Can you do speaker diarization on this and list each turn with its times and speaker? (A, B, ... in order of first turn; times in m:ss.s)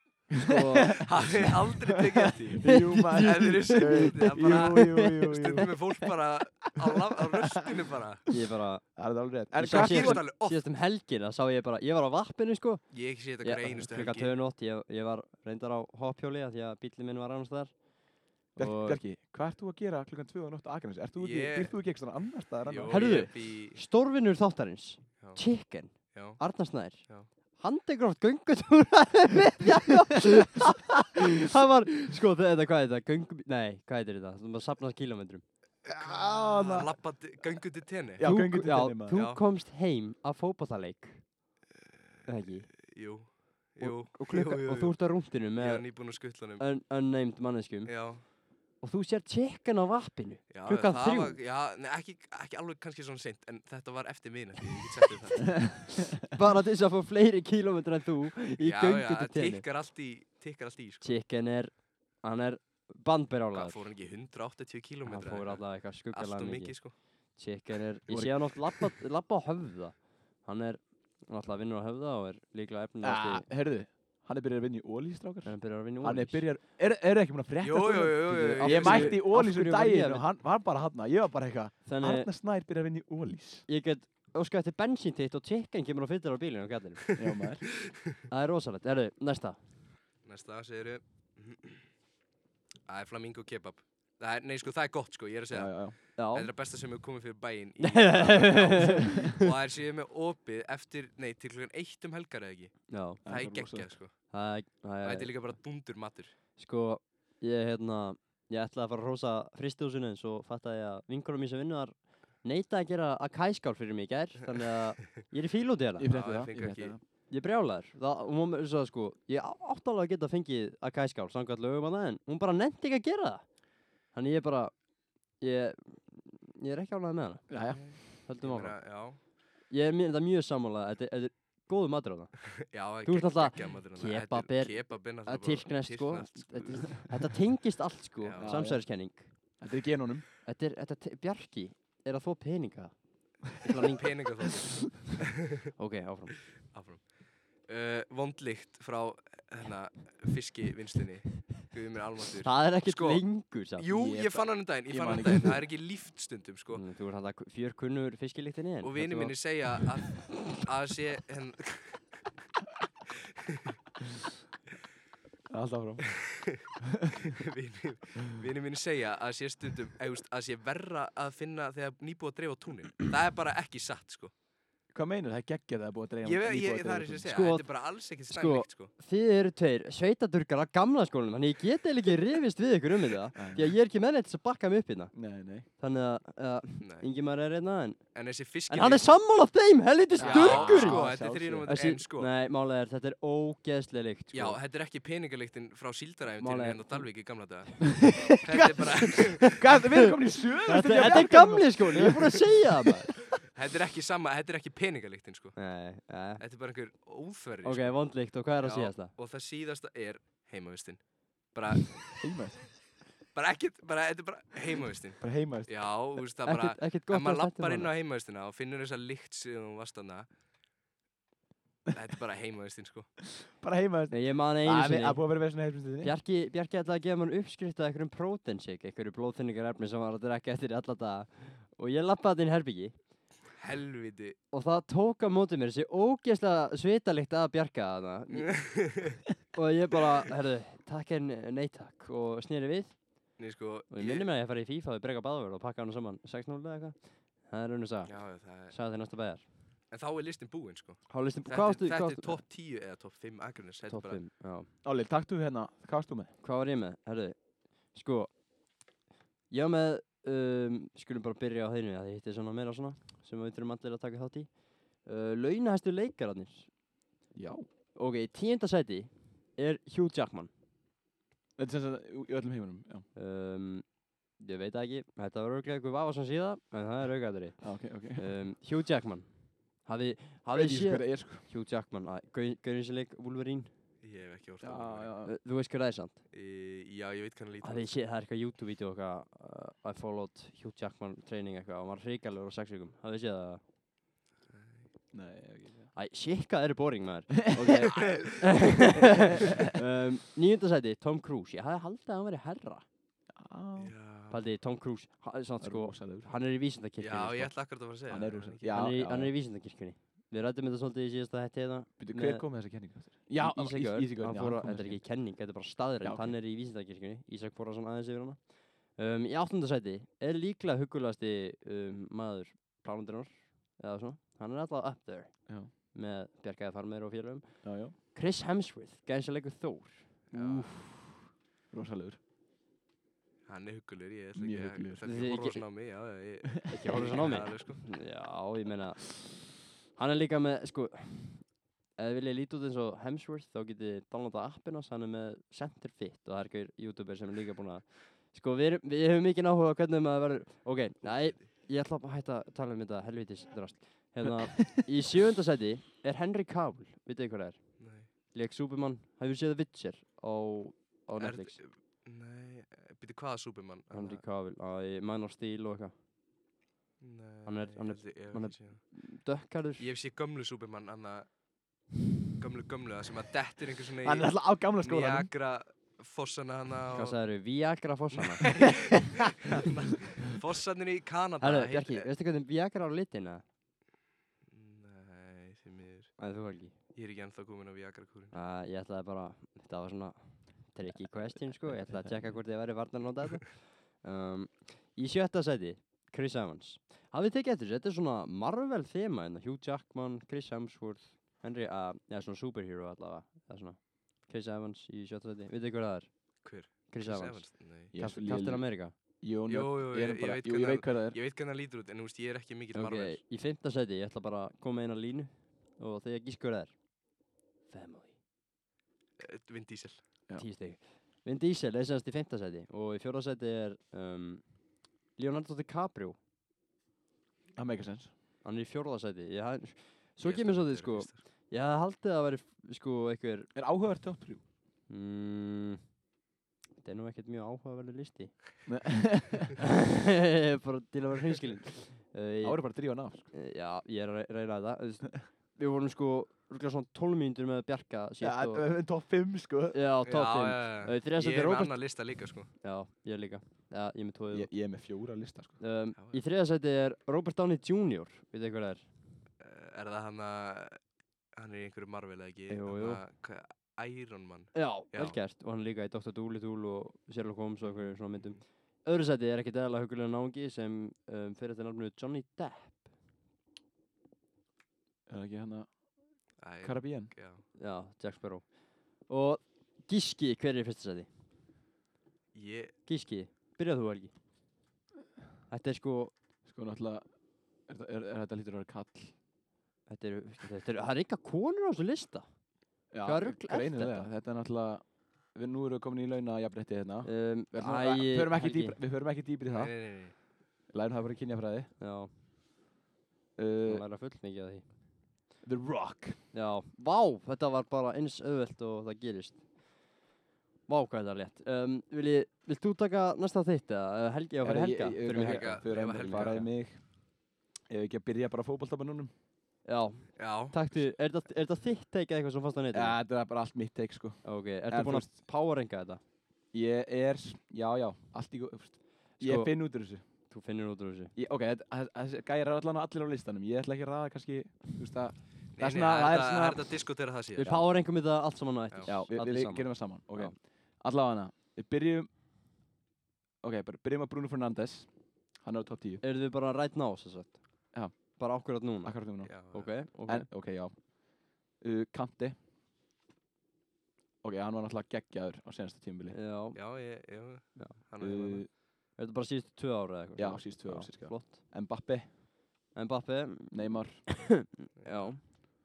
0:00.3-0:06.1 A
0:00.4-0:01.1 B
0:01.0-0:08.4 C
0:02.6-0:05.4 B
0:08.3-0:17.8 B
0:09.0-0:10.2 A
0:09.7-0:10.6 C
0:12.9-0:14.3 C
0:18.6-0:19.0 B
0:18.6-0:23.3 A
0:21.2-0:21.7 C
0:22.7-0:23.8 C
0:22.9-0:35.4 B
0:25.2-0:27.3 C
0:35.9-0:37.0 A
0:36.0-0:38.2 C
0:38.2-0:39.2 A
0:38.2-0:41.2 B
0:39.1-0:39.4 C
0:42.2-0:42.7 B
0:42.8-0:46.7 C
0:43.8-0:48.2 B
0:47.9-0:48.2 C
0:48.8-0:51.4 B
0:50.5-0:55.8 C
0:56.3-0:59.6 B
0:58.6-1:01.1 C
1:01.0-1:03.8 B
1:03.5-1:07.0 C
1:05.1-1:06.8 B
1:07.3-1:13.5 B
1:08.1-1:08.8 A
1:13.0-1:23.7 A
1:15.4-1:16.5 B
1:17.6-1:19.2 C
1:18.6-1:20.2 B
1:21.8-1:22.3 B
1:23.7-1:27.1 B
1:27.2-1:27.6 A
1:28.3-1:29.6 B
1:30.2-1:31.9 C
1:32.9-1:44.3 C
1:35.5-1:36.0 A
1:36.2-1:36.5 B
1:37.8-1:39.5 B
1:38.8-1:39.3 A
1:42.9-1:43.2 B
1:43.2-1:43.9 A
1:44.3-1:45.3 B
1:45.0-1:46.4 C
1:46.6-1:56.1 B
1:56.0-1:57.0 A
1:56.1-1:57.0 C
1:57.3-2:03.5 B
2:04.1-2:04.8 B
2:05.4-2:08.9 B
2:07.5-2:08.0 A
2:07.7-2:09.2 C
2:09.7-2:19.3 B
2:12.6-2:17.3 C
2:18.2-2:18.6 C
2:18.4-2:18.9 A
2:19.6-2:20.2 A
2:20.4-2:23.0 B
2:23.6-2:24.1 B
2:23.9-2:25.7 C
2:25.8-2:26.4 B
2:26.7-2:36.8 C
2:32.4-2:33.9 B
2:33.9-2:35.7 A
2:36.7-2:39.4 B
2:38.8-2:42.0 C
2:43.4-2:43.8 C
2:45.5-2:47.4 A
2:46.1-2:46.7 C
2:47.2-2:54.3 C
2:54.9-2:57.3 A
2:56.2-2:58.9 C
2:57.2-3:05.1 B
3:03.4-3:03.7 A
3:05.1-3:05.7 A
3:05.8-3:08.0 B
3:06.8-3:07.1 C
3:08.2-3:09.0 C
3:08.7-3:11.1 B
3:10.2-3:11.7 A
3:10.2-3:12.3 C
3:11.7-3:14.6 B
3:14.3-3:19.6 C
3:16.4-3:17.1 B
3:18.0-3:22.9 A
3:19.4-3:23.1 B
3:23.4-3:25.6 C
3:25.6-3:26.4 B
3:26.4-3:32.2 C
3:27.6-3:29.1 B
3:32.2-3:32.7 A
3:33.3-3:40.3 C
3:35.2-3:35.9 A
3:36.4-3:37.9 B
3:41.9-3:43.1 C
3:43.5-3:46.1 A
3:44.1-3:45.2 B
3:46.0-3:53.0 B
3:53.6-3:54.4 C
3:54.5-3:58.9 B
3:58.4-3:59.2 C
3:59.5-4:03.4 B
4:03.4-4:04.3 C
4:03.9-4:09.5 B
4:08.1-4:08.8 C
4:09.9-4:14.2 C
4:11.1-4:12.4 B
4:13.9-4:14.7 B
4:14.8-4:16.3 A
4:16.4-4:18.3 B
4:19.5-4:26.7 B
4:27.3-4:27.7 A
4:28.0-4:30.5 B
4:31.6-4:33.1 A
4:33.2-4:39.3 B
4:37.6-4:38.3 A
4:39.8-4:43.7 B
4:40.5-4:41.5 A
4:44.0-4:45.1 C
4:44.6-4:45.3 A
4:45.2-4:46.2 B
4:46.3-4:47.9 C
4:47.6-4:53.6 B
4:54.5-4:54.9 C
4:55.1-4:55.9 A
4:56.0-5:02.8 B
4:57.4-4:59.7 A
4:57.9-4:58.4 C
5:03.4-5:03.9 A
5:03.8-5:04.4 C
5:04.3-5:07.5 B
5:05.6-5:06.3 A
5:07.0-5:08.8 C
5:08.1-5:09.3 A
5:08.7-5:12.5 B
5:12.0-5:15.0 A
5:13.4-5:30.9 B
5:16.0-5:16.4 A
5:27.6-5:28.0 A
5:30.3-5:30.7 C
5:31.7-5:32.2 A
5:33.5-5:38.0 C
5:34.4-5:35.0 A
5:35.0-5:35.7 B
5:36.7-6:01.6 B
5:36.7-5:37.3 A
5:51.1-5:51.4 C
5:57.8-5:58.1 C
6:01.2-6:04.2 C
6:03.9-6:05.9 B
6:07.0-6:09.0 C
6:07.4-6:09.8 B
6:09.8-6:11.3 C
6:12.4-6:17.2 C
6:14.0-6:15.3 A
6:16.9-6:18.7 B
6:18.4-6:22.1 C
6:21.4-6:23.4 B
6:24.5-6:28.3 C
6:26.2-6:26.8 B
6:28.3-6:49.0 B
6:31.4-6:32.4 A
6:46.4-6:47.9 C
6:47.9-6:48.7 A
6:49.2-6:51.2 A
6:49.5-6:53.2 C
6:52.7-6:56.8 B
6:57.7-6:58.1 B
6:59.2-7:00.0 C
7:00.4-7:04.6 B
7:05.2-7:06.2 B
7:07.5-7:08.1 A
7:08.4-7:13.5 B
7:10.2-7:11.2 C
7:13.6-7:14.4 A
7:14.9-7:15.8 B
7:16.8-7:18.4 B
7:18.7-7:19.6 A
7:19.6-7:22.6 B
7:22.4-7:23.3 A
7:23.3-7:28.7 B
7:28.2-7:29.8 A
7:29.7-7:31.8 B
7:30.1-7:32.5 C
7:32.6-7:34.5 B
7:34.3-7:35.6 A
7:35.6-7:38.9 B
7:36.0-7:36.2 C
7:39.4-7:45.2 C
7:42.5-7:43.0 B
7:44.5-7:52.9 B
7:55.1-7:55.8 A
7:56.4-7:57.4 C
7:56.6-7:57.1 A
7:57.6-8:01.1 B
8:02.3-8:02.8 C
8:02.9-8:04.1 B
8:05.5-8:06.1 B
8:06.5-8:07.1 A
8:07.7-8:09.2 A
8:09.9-8:12.3 B
8:12.9-8:19.8 A
8:13.0-8:14.1 B
8:17.0-8:18.8 B
8:19.5-8:20.2 C
8:20.7-8:21.7 A
8:21.8-8:22.1 B
8:23.4-8:23.8 A
8:23.7-8:24.7 B
8:25.4-8:26.2 A
8:26.3-8:29.5 B
8:30.7-8:36.5 B
8:34.4-8:36.9 A
8:35.1-8:36.4 C
8:37.7-8:39.1 A
8:39.6-8:43.0 B
8:40.2-8:40.6 C
8:42.7-8:45.1 A
8:44.2-8:46.0 B
8:46.5-8:50.0 A
8:49.2-8:49.6 B
8:50.2-8:51.1 B
8:51.2-8:56.7 A
8:55.6-8:57.5 C
8:57.4-9:00.4 B
8:58.9-9:02.1 A
9:03.4-9:06.0 A
9:06.0-9:10.3 B
9:07.7-9:08.2 A
9:08.8-9:10.9 A
9:09.2-9:09.7 C
9:11.5-9:12.4 A
9:14.2-9:16.2 A
9:16.1-9:16.6 B
9:16.5-9:18.4 C
9:18.0-9:18.5 A
9:19.0-9:21.4 B
9:20.2-9:22.1 A
9:22.7-9:25.2 B
9:23.5-9:24.0 A
9:24.8-9:25.2 C